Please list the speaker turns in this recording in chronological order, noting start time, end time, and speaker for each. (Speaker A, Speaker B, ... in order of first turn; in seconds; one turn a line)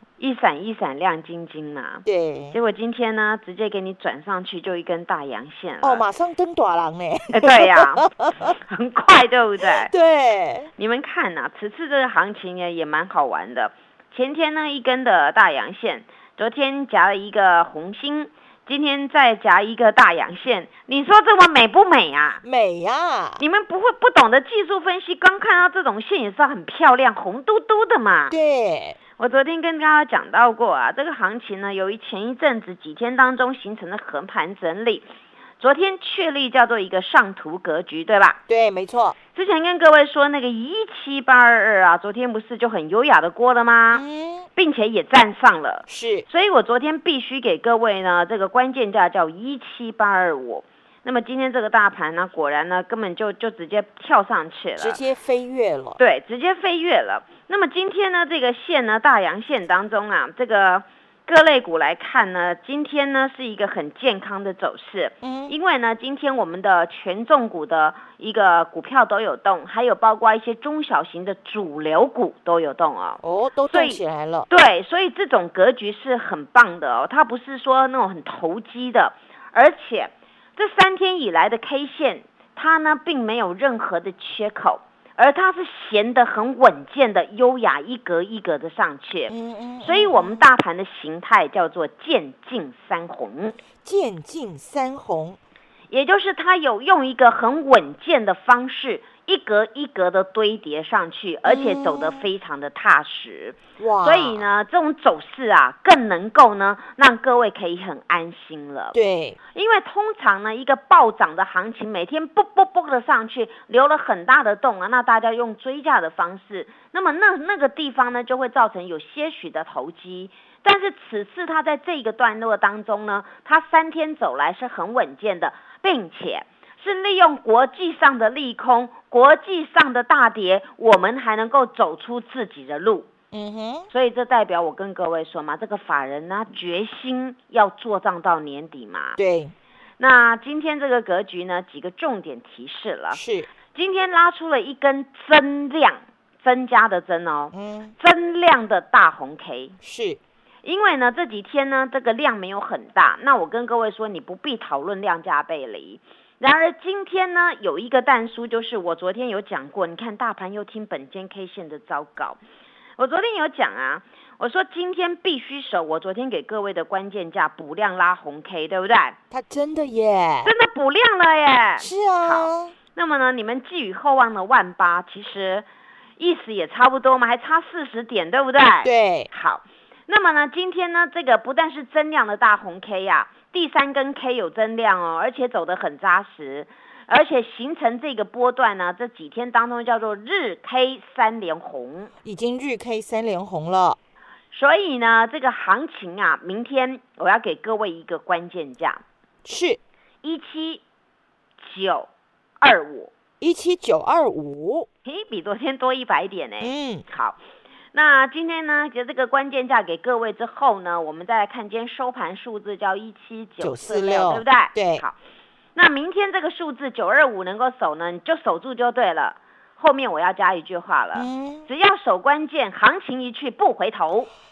Speaker A: 0.2-6.0
Speaker B: 2.0-2.6
Speaker B: 5.8-8.5
Speaker A: 7.3-9.9
Speaker B: 9.6-10.7
Speaker A: 10.8-22.4
Speaker B: 22.4-23.4
Speaker A: 23.4-28.4
Speaker B: 28.3-29.0
Speaker A: 29.2-35.1
Speaker A: 35.6-38.4
Speaker B: 38.5-39.2
Speaker A: 39.4-44.0
Speaker B: 43.9-44.5
Speaker A: 44.6-55.0
Speaker B: 45.9-46.3
Speaker B: 54.8-56.0
Speaker A: 56.0-93.6
Speaker B: 65.2-65.5
Speaker B: 73.2-74.5
Speaker B: 89.3-90.4
Speaker B: 93.8-95.4
Speaker A: 95.9-109.0
Speaker B: 101.5-102.2
Speaker B: 103.8-104.4
Speaker B: 108.9-109.4
Speaker A: 109.5-133.1
Speaker B: 133.3-133.9
Speaker A: 133.9-139.2
Speaker B: 139.2-139.5
Speaker A: 140.0-143.2
Speaker B: 143.1-143.5
Speaker A: 143.7-149.8
Speaker B: 147.5-147.9
Speaker B: 149.8-150.2
Speaker A: 150.6-162.4
Speaker A: 163.0-169.2
Speaker B: 169.3-170.5
Speaker A: 170.4-175.7
Speaker B: 171.8-172.7
Speaker A: 176.2-192.1
Speaker B: 178.8-179.3
Speaker B: 192.2-194.0
Speaker A: 194.5-199.0
Speaker B: 199.4-199.8
Speaker A: 200.2-200.8
Speaker A: 201.6-202.1
Speaker A: 202.6-203.1
Speaker B: 203.4-204.9
Speaker A: 205.1-207.4
Speaker B: 206.6-207.0
Speaker A: 207.9-215.2
Speaker B: 213.6-215.0
Speaker A: 215.8-224.3
Speaker B: 221.2-221.7